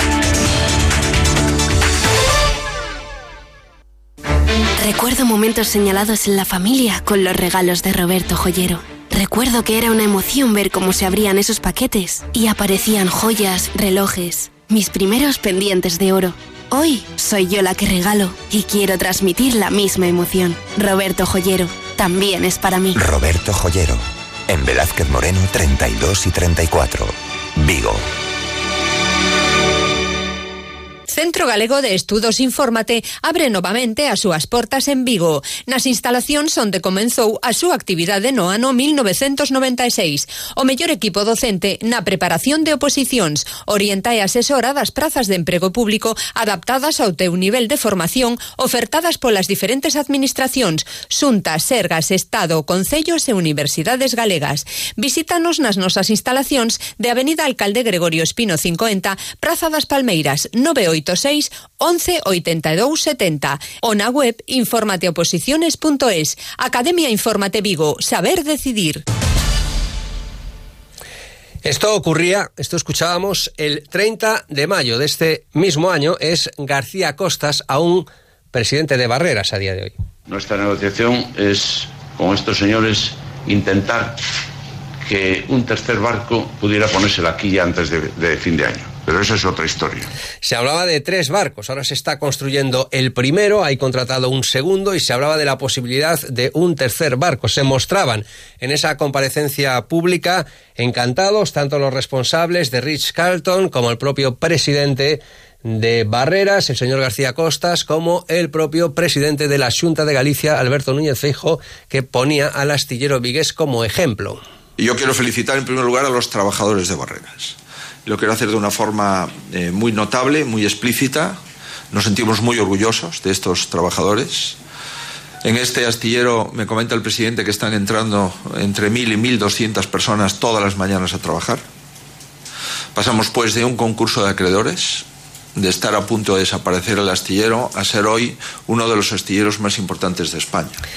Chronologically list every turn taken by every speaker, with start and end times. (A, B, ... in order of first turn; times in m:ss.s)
0:04.8-0:23.0 A
0:23.0-0:28.0 B
0:31.1-1:09.0 C
1:11.6-1:19.9 D
1:20.3-1:24.2 E
1:25.0-1:30.1 E
1:30.4-1:54.4 D
1:54.8-2:01.4 F
2:01.9-2:04.6 F
2:05.4-2:11.6 F
2:12.9-2:15.0 F
2:15.6-2:20.8 F